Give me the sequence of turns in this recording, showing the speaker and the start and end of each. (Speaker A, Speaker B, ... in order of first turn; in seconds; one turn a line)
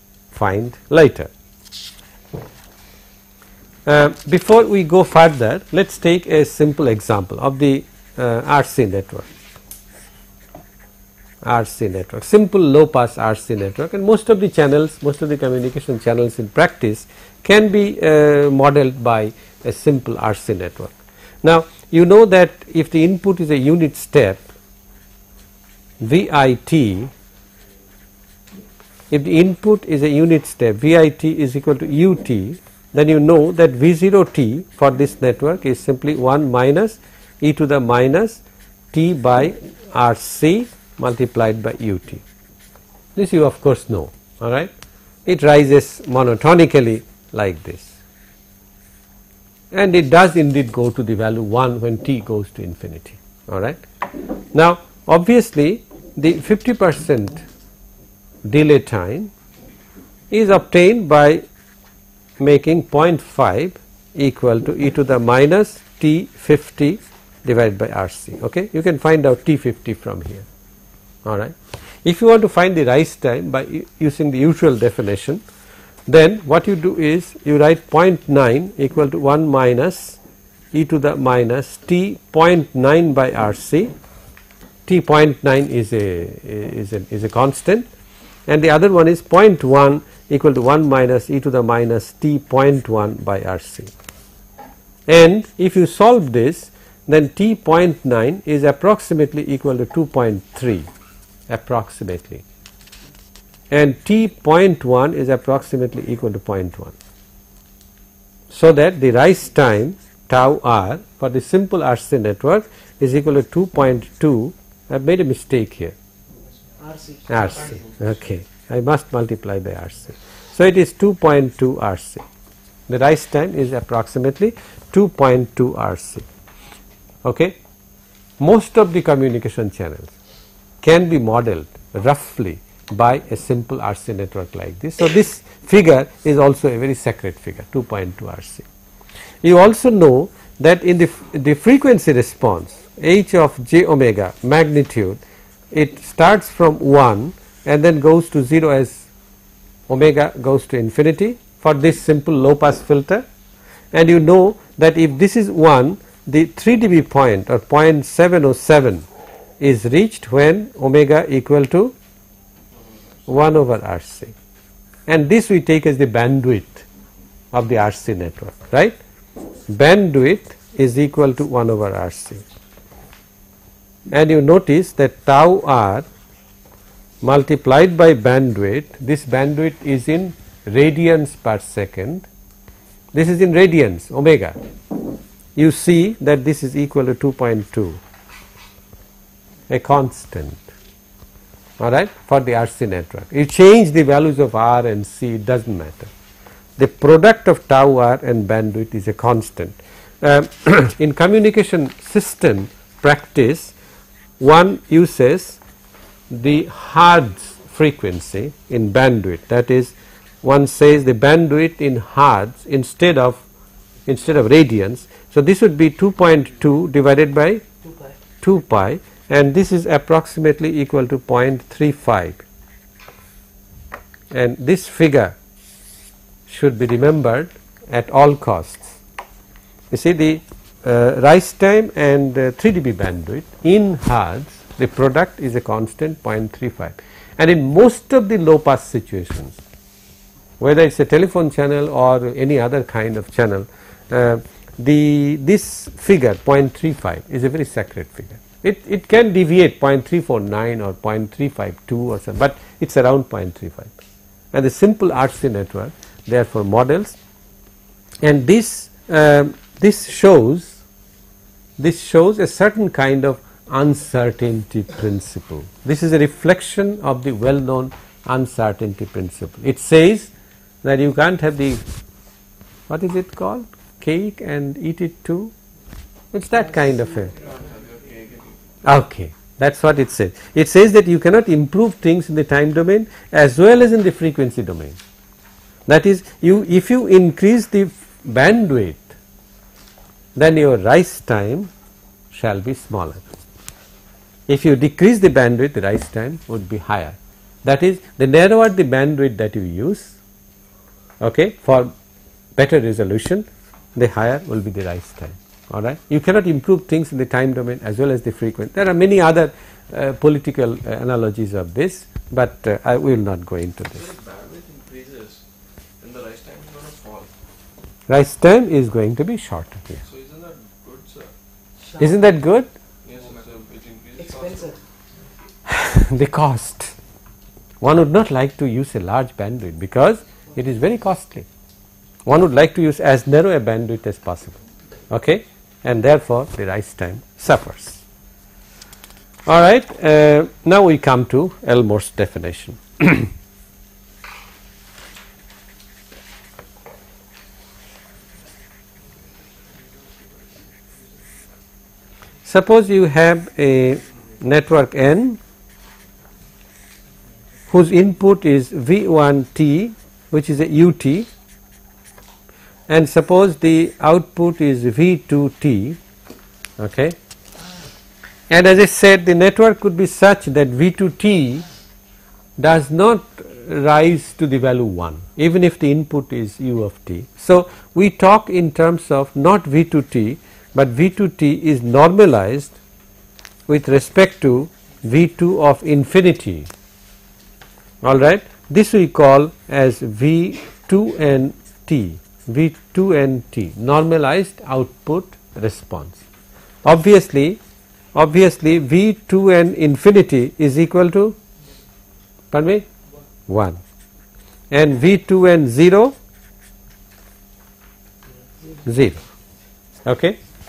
Speaker A: 0.3-1.3
Speaker A: 3.9-9.3
Speaker A: 11.4-24.4
Speaker A: 26.0-27.1
Speaker A: 29.1-42.2
Speaker A: 43.1-44.7
Speaker A: 45.2-48.0
Speaker A: 49.7-53.8
Speaker A: 54.5-57.5
Speaker A: 58.4-59.3
Speaker A: 60.3-61.4
Speaker A: 62.4-70.5
Speaker A: 71.2-75.4
Speaker A: 76.1-80.2
Speaker A: 80.7-83.9
Speaker A: 84.8-87.9
Speaker A: 88.5-93.9
Speaker A: 95.1-100.9
Speaker A: 101.5-102.4
Speaker A: 103.7-106.9
Speaker A: 108.5-115.9
Speaker B: 116.8-117.8
Speaker A: 117.3-122.2
Speaker C: 117.4-118.0
Speaker A: 122.9-126.2
Speaker A: 127.2-127.6
Speaker A: 128.4-130.1
Speaker A: 130.8-138.7
Speaker A: 139.4-145.2
Speaker A: 145.7-149.1
Speaker A: 149.9-153.2
Speaker A: 153.9-159.1
Speaker A: 159.6-161.9
Speaker C: 162.7-163.3
Speaker A: 163.3-164.3
Speaker A: 165.1-166.8
Speaker A: 167.5-169.0
Speaker A: 169.7-172.4
Speaker A: 174.1-176.1
Speaker A: 177.2-182.3
Speaker A: 183.1-184.6
Speaker A: 185.6-188.0
Speaker A: 189.7-190.6
Speaker A: 191.8-196.1
Speaker A: 196.8-203.7
Speaker A: 204.4-205.6
Speaker A: 206.3-213.4
Speaker A: 214.1-217.6
Speaker B: 217.8-218.2
Speaker A: 218.4-222.4
Speaker A: 224.3-225.3
Speaker A: 226.5-229.0
Speaker A: 229.9-239.6
Speaker A: 240.6-253.9
Speaker A: 254.5-257.2
Speaker A: 258.2-260.8
Speaker A: 261.8-270.3
Speaker A: 270.8-271.8
Speaker A: 272.9-275.5
Speaker A: 276.3-277.3
Speaker B: 276.5-277.8
Speaker C: 277.3-278.6
Speaker A: 278.8-285.0
Speaker A: 285.9-289.1
Speaker A: 290.3-291.7
Speaker A: 292.3-293.2
Speaker A: 294.5-300.2
Speaker A: 301.2-301.9
Speaker A: 302.6-314.1
Speaker C: 313.9-315.4
Speaker C: 316.0-317.3
Speaker A: 318.1-320.0
Speaker C: 320.0-321.3
Speaker B: 321.8-322.3
Speaker A: 322.0-322.7
Speaker C: 323.0-324.8
Speaker B: 324.2-324.8
Speaker A: 325.7-326.9
Speaker A: 327.8-331.5
Speaker A: 332.2-338.0
Speaker A: 339.4-343.3
Speaker A: 352.4-355.4
Speaker A: 357.7-361.3
Speaker A: 362.9-366.0
Speaker A: 366.8-367.1
Speaker A: 368.5-371.6
Speaker A: 372.6-382.8
Speaker A: 383.7-386.7
Speaker A: 388.0-396.2
Speaker A: 396.8-397.6
Speaker A: 398.1-401.4
Speaker A: 402.5-402.9
Speaker A: 403.5-403.8
Speaker A: 404.7-406.1
Speaker A: 408.8-409.2
Speaker A: 410.0-410.4